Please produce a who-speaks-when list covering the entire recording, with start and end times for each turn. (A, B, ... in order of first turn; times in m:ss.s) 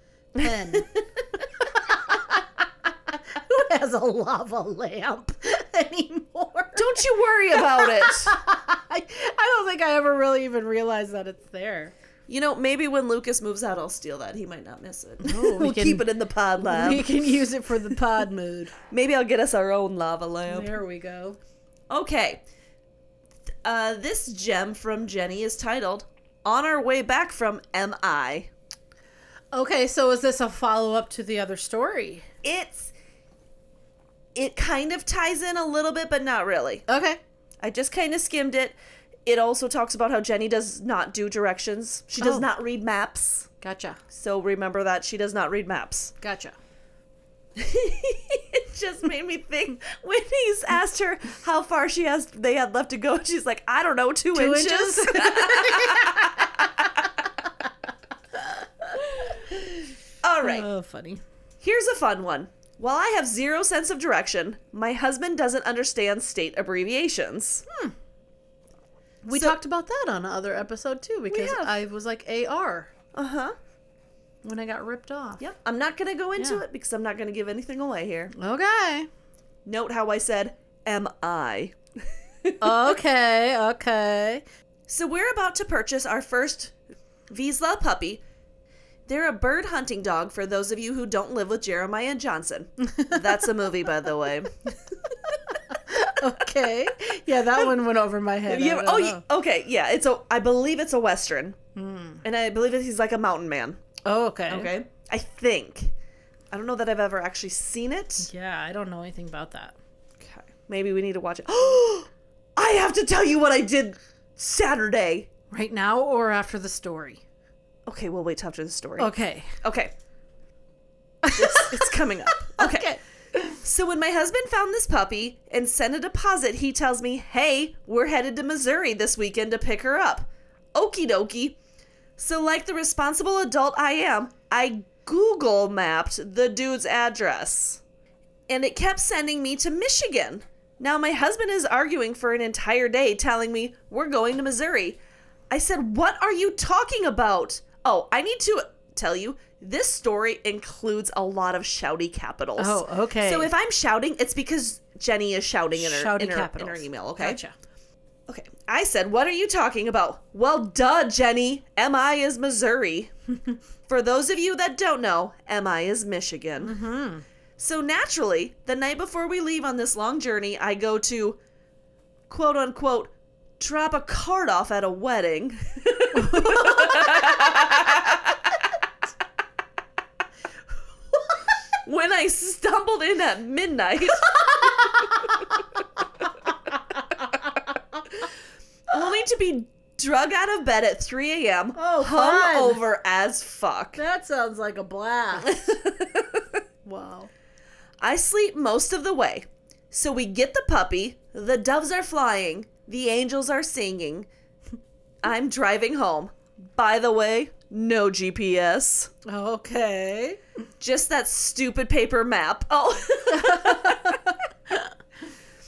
0:00.3-0:02.4 A
0:03.1-0:11.9 A
0:06.8-0:08.4 B
0:12.3-0:17.1 B
0:15.2-0:16.0 A
0:16.6-0:18.7 A
0:18.9-0:20.8 B
0:20.5-0:21.4 A
0:21.9-0:22.4 B
0:23.6-0:28.5 B
0:29.5-0:32.2 A
0:32.4-0:32.9 B
0:34.3-0:36.8 B
0:36.9-0:37.2 A
0:37.6-0:43.5 B
0:42.2-0:42.5 A
0:43.6-0:44.0 A
0:44.1-0:46.1 B
0:46.2-0:46.5 A
0:47.5-0:57.2 B
0:54.3-0:56.9 A
0:58.3-0:59.7 A
1:00.2-1:00.6 B
1:00.4-1:01.2 A
1:01.6-1:07.6 B
1:07.7-1:07.9 A
1:09.2-1:12.9 A
1:09.3-1:09.6 B
1:11.3-1:11.7 B
1:13.1-1:13.5 B
1:14.4-1:15.4 A
1:15.4-1:18.3 B
1:18.3-1:19.1 A
1:19.6-1:21.8 B
1:22.4-1:22.9 B
1:22.6-1:24.4 A
1:24.9-1:26.7 B
1:27.3-1:28.2 B
1:29.1-1:34.5 B
1:32.8-1:33.5 A
1:35.7-1:39.2 A
1:38.5-1:41.6 B
1:41.8-1:42.2 A
1:42.2-1:43.8 B
1:44.0-1:44.7 A
1:44.5-1:45.9 B
1:46.5-1:48.3 B
1:48.2-1:49.8 A
1:50.2-1:55.3 B
1:55.5-1:57.2 A
1:57.8-1:59.9 B
1:59.0-1:59.5 A
2:01.2-2:03.6 A
2:01.3-2:03.0 B
2:03.6-2:11.6 B
2:12.2-2:17.8 B
2:18.5-2:25.0 B
2:25.5-2:37.4 B
2:32.6-2:33.5 A
2:35.7-2:37.5 A
2:38.3-2:43.1 B
2:43.9-2:46.8 B
2:46.6-2:47.2 A
2:47.6-2:51.4 B
2:52.3-2:58.6 B
2:56.1-2:57.5 A
3:01.8-3:05.6 B
3:04.2-3:05.4 A
3:07.0-3:07.6 A
3:08.9-3:14.0 B
3:11.7-3:12.8 A
3:14.0-3:15.7 A
3:15.4-3:16.6 B
3:16.8-3:17.3 A
3:18.0-3:24.3 B
3:25.2-3:29.1 B
3:29.2-3:30.4 A
3:30.8-3:34.3 B
3:33.3-3:34.9 A